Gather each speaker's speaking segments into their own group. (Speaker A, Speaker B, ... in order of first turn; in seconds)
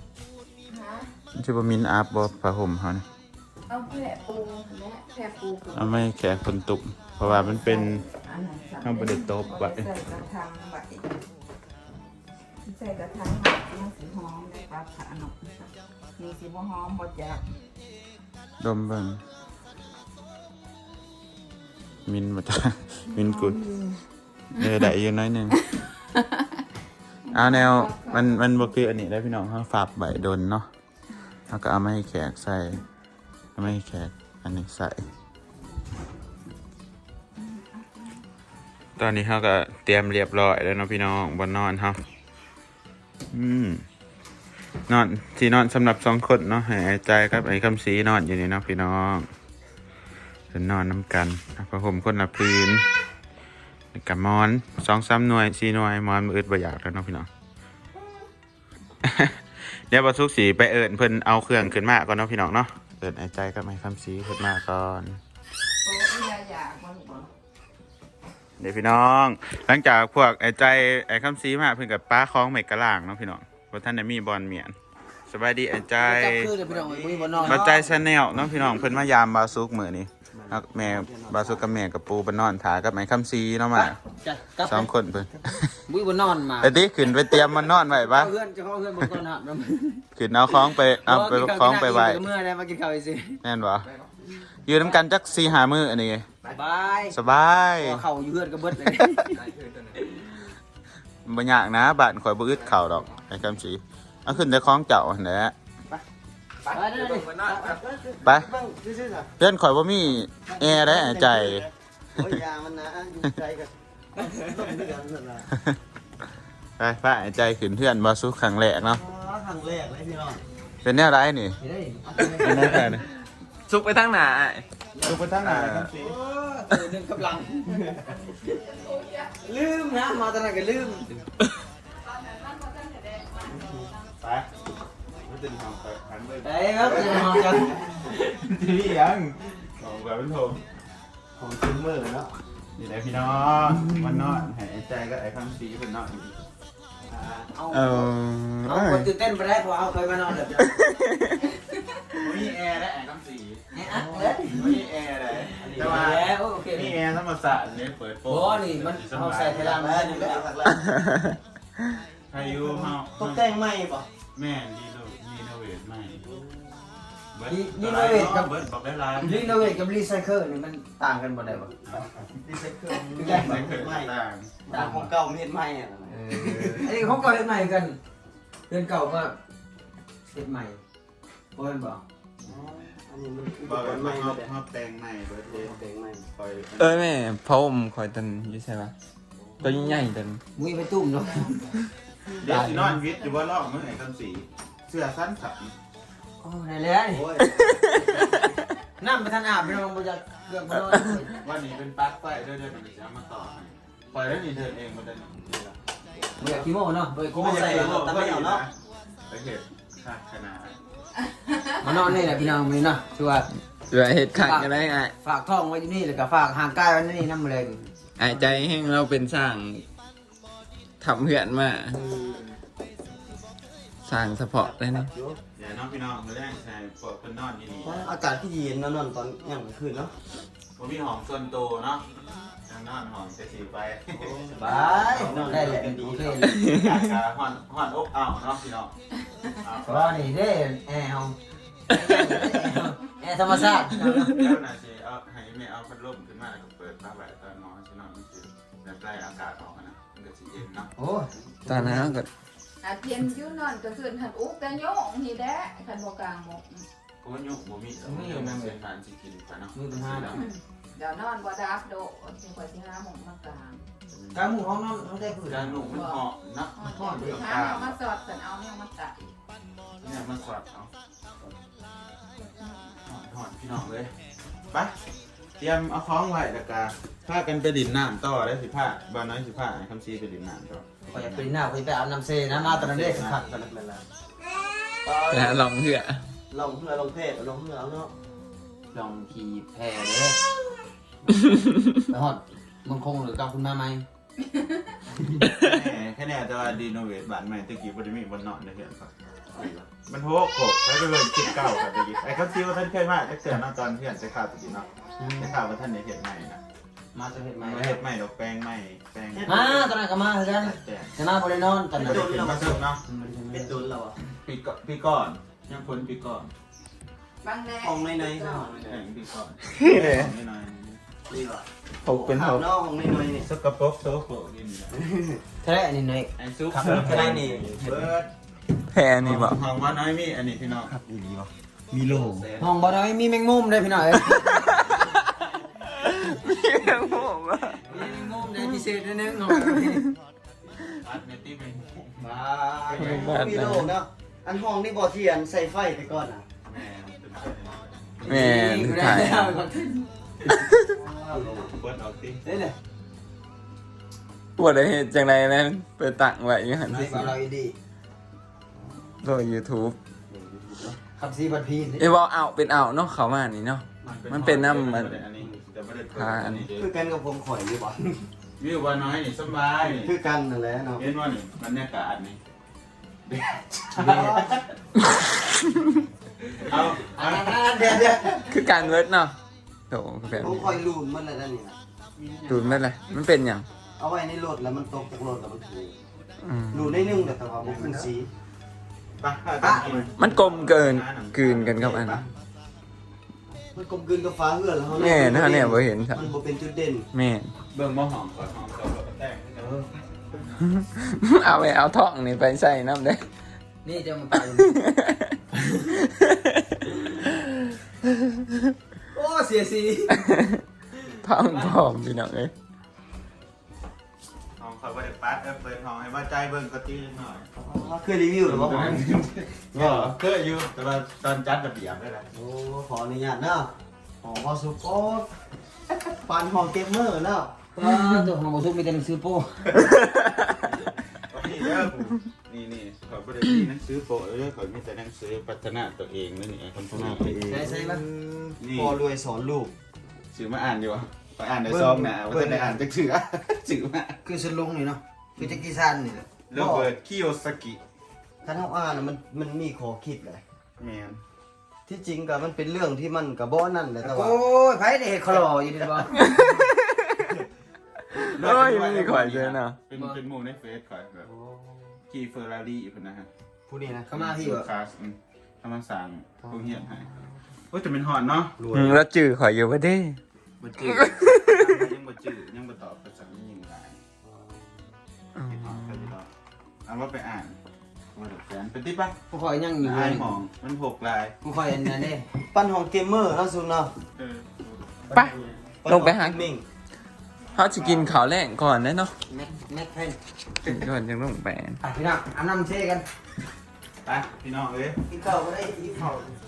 Speaker A: 0.7-1.1, 3.7-6.0, 7.2-11.2, 12.7-17.4, 23.2-24.0, 27.3-28.3, 37.4-38.1, 65.8-67.3, 128.4-129.3, 132.0-133.9, 148.5-148.9, 251.7-252.3, 252.8-256.9, 260.3-263.9, 266.8-269.3, 272.4-272.9, 317.4-318.4, 319.8-320.1, 329.2-329.5, 343.4-343.9, 390.6-391.3
Speaker B: 1.3-3.0, 5.7-8.1, 8.8-9.9, 18.6-19.2, 22.1-23.8, 24.5-25.6, 27.3-30.7, 31.5-32.8, 33.6-35.0, 39.0-42.0, 43.3-43.8, 44.9-49.3, 50.5-52.9, 53.9-57.3, 59.0-65.2, 68.6-74.8, 75.3-76.5, 77.4-84.0, 84.6-85.7, 86.6-88.3, 90.1-92.2, 93.4-93.9, 94.7-96.3, 97.1-98.0, 98.9-99.3, 101.2-105.5, 108.2-108.5, 109.4-111.7, 116.8-119.0, 120.8-121.6, 122.4-123.1, 125.0-126.2, 134.2-134.5, 135.1-140.6, 142.8-146.4, 152.2-153.7, 154.4-159.7, 162.3-163.5, 164.3-166.2, 167.3-169.8, 171.9-172.4, 173.2-174.6, 182.4-182.9, 183.6-185.8, 186.3-187.0, 192.3-195.7, 201.3-205.7, 206.4-206.7, 207.3-208.7, 209.3-210.8, 225.6-228.1, 230.8-232.1, 232.7-238.9, 239.4-240.3, 244.2-250.9, 257.2-260.4, 264.1-264.7, 265.5-268.0, 270.0-270.9, 273.1-274.1, 274.7-275.0, 275.6-281.6, 282.5-283.5, 295.4-299.1, 300.1-306.6, 307.6-309.6, 310.6-311.1, 312.0-313.0, 314.4-316.5, 318.8-321.0, 323.4-325.1, 326.4-328.3, 329.2-330.9, 332.0-332.9, 336.9-338.5, 340.8-342.3, 342.9-343.4, 346.6-348.2, 351.3-352.4, 364.0-366.9, 368.6-370.1, 371.0-372.4, 373.3-374.7, 376.6-378.1, 382.2-382.9, 387.6-388.1, 389.2-392.3, 397.7-399.8, 414.6-417.5, 418.4-422.3, 430.5-439.0, 440.3-444.2, 446.5-447.8, 450.8-451.2, 458.3-461.3, 462.1-463.3, 464.1-467.1, 467.7-468.6, 470.6-474.0, 475.5-476.3, 476.9-477.6, 478.1-479.2, 479.8-481.4, 484.2-485.4, 487.6-488.1, 494.0-495.0
Speaker C: 76.0-77.9, 83.8-84.9, 85.9-86.8, 87.3-90.0, 91.0-93.4, 96.5-97.2, 97.8-100.2, 106.7-107.8, 114.2-114.7, 121.6-122.9, 125.0-128.0, 129.4-131.2, 136.4-138.0, 147.1-148.1, 148.7-150.7, 153.7-154.8, 155.6-157.0, 158.3-160.5, 167.5-168.5, 169.2-171.7, 173.2-173.7, 174.7-175.1, 176.1-178.0, 178.7-179.4, 180.3-180.8, 181.6-182.0, 190.6-191.7, 192.3-193.0, 196.4-197.3, 199.0-201.4, 206.4-208.2, 211.8-213.5, 214.3-218.5, 224.6-225.4, 234.5-236.7, 239.8-241.4, 241.9-244.4, 251.0-252.2, 258.0-258.8, 259.7-260.4, 264.3-265.9, 266.8-267.4, 281.1-283.5, 288.9-290.4, 292.1-294.1, 299.5-299.9, 305.2-305.5, 307.1-308.0, 309.5-312.3, 313.1-313.8, 325.6-328.1, 332.6-334.8, 337.9-340.1, 342.2-343.4, 348.2-350.1, 350.8-351.6, 352.4-352.8, 356.9-357.8, 361.0-362.1, 376.6-378.8, 389.6-390.0, 399.6-399.9, 403.8-404.8, 409.1-410.2, 410.9-411.8, 427.7-429.9, 437.5-438.0, 444.2-446.8, 454.0-456.3, 464.1-464.7, 479.3-480.4, 481.4-482.3, 489.3-490.2, 491.8-493.1, 495.6-496.2
Speaker D: 76.7-77.9, 80.4-81.7, 106.7-109.3, 110.5-115.5, 118.8-120.4, 122.2-122.7, 141.4-142.3, 154.0-154.4, 159.5-161.0, 162.4-164.1, 166.3-166.7, 171.8-174.2, 174.7-176.9, 182.5-184.5, 185.5-186.3, 189.6-189.9, 197.1-198.5, 208.1-208.6, 222.0-222.6, 227.8-230.1, 234.2-236.3, 283.5-284.0, 285.0-285.7, 286.5-288.1, 309.3-309.9, 312.0-312.8, 313.5-314.1, 317.8-319.1, 321.3-323.5, 325.0-325.4, 327.1-327.6, 330.9-332.5, 342.9-346.4, 366.7-368.3, 369.9-371.1, 374.0-374.5, 380.3-381.8, 384.0-385.9, 386.7-388.3, 389.8-390.1, 393.7-397.1, 417.6-419.1, 422.3-425.3, 426.2-427.5, 436.9-439.7, 441.7-442.8, 448.4-450.4, 451.9-454.4, 461.3-461.8, 463.7-464.1, 468.6-469.0, 474.2-474.8, 482.5-483.9, 485.8-486.6, 495.1-496.4
Speaker E: 123.7-124.7, 147.7-149.1, 150.7-151.1, 186.8-188.9, 189.6-190.4, 213.9-215.1, 218.2-219.8, 221.0-222.0, 224.0-225.1, 285.3-286.2, 322.1-322.6, 328.9-329.4, 336.0-337.8, 343.4-343.8, 348.4-349.5, 354.6-357.3, 359.2-360.0, 362.0-365.1, 366.2-366.6, 378.5-379.4, 379.9-380.6, 382.5-383.7, 386.5-386.8, 390.2-392.2, 395.1-396.2, 397.1-397.5, 400.8-403.3, 404.6-405.3, 406.0-406.6, 410.2-410.6, 411.2-412.5, 456.3-457.3, 458.1-459.8, 468.7-470.2, 485.9-486.4, 487.6-489.1, 490.6-491.8